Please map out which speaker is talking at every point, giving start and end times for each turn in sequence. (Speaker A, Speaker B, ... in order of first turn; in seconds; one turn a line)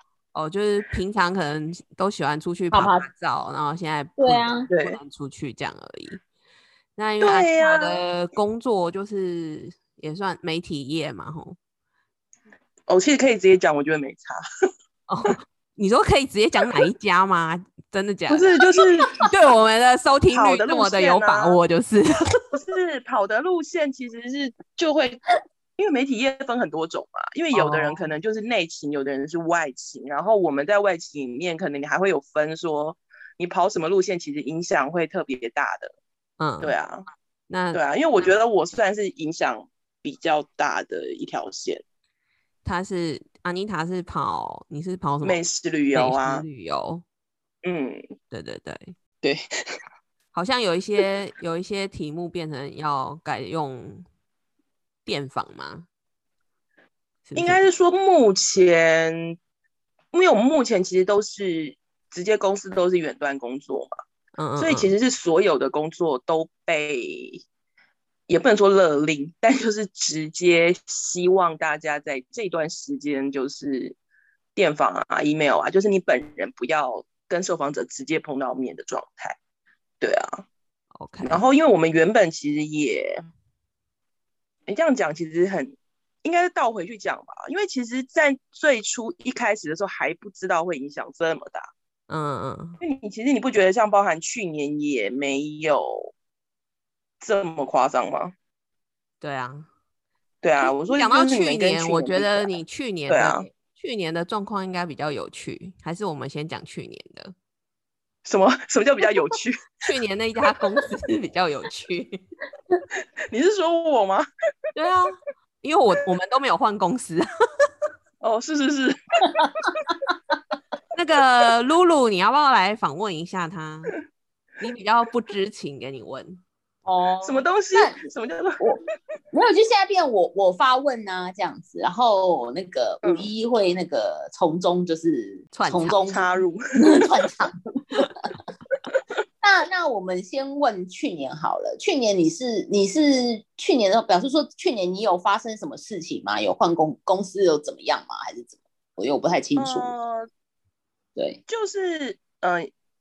Speaker A: 0.3-6.2
Speaker B: 2.7-3.1
Speaker B: 4.2-4.7
Speaker C: 4.7-5.0
Speaker A: 7.0-11.6
Speaker C: 7.2-8.0
Speaker C: 12.9-14.4
Speaker A: 15.1-18.5
Speaker C: 18.3-19.1
Speaker A: 19.2-22.4
Speaker C: 20.3-21.6
Speaker C: 22.5-25.2
Speaker C: 25.8-35.9
Speaker A: 27.5-28.0
Speaker A: 36.4-36.8
Speaker C: 36.6-37.0
Speaker A: 37.5-38.3
Speaker C: 37.7-41.8
Speaker A: 42.6-45.4
Speaker C: 45.2-46.5
Speaker A: 45.9-47.0
Speaker C: 47.6-48.0
Speaker A: 48.3-49.0
Speaker C: 49.2-49.8
Speaker A: 50.3-54.1
Speaker A: 55.0-55.9
Speaker A: 57.3-57.6
Speaker C: 57.4-59.4
Speaker C: 60.1-63.9
Speaker A: 64.4-64.9
Speaker C: 64.6-67.4
Speaker C: 68.3-74.0
Speaker C: 74.5-79.4
Speaker C: 80.0-80.5
Speaker A: 81.0-81.4
Speaker C: 81.2-83.2
Speaker C: 84.7-91.7
Speaker A: 92.1-92.8
Speaker C: 92.8-96.1
Speaker C: 97.2-98.3
Speaker A: 99.2-99.7
Speaker C: 100.4-102.6
Speaker A: 100.9-107.3
Speaker C: 103.1-103.5
Speaker C: 108.2-109.7
Speaker A: 109.8-112.2
Speaker C: 113.3-114.3
Speaker A: 114.8-117.3
Speaker C: 118.2-119.0
Speaker B: 119.2-120.1
Speaker A: 121.0-124.0
Speaker A: 124.6-126.4
Speaker B: 126.8-128.0
Speaker C: 127.2-128.6
Speaker B: 128.6-138.4
Speaker C: 133.0-133.3
Speaker A: 135.5-136.0
Speaker C: 136.1-137.3
Speaker B: 139.4-149.9
Speaker C: 149.6-150.3
Speaker B: 151.2-151.4
Speaker C: 151.5-152.7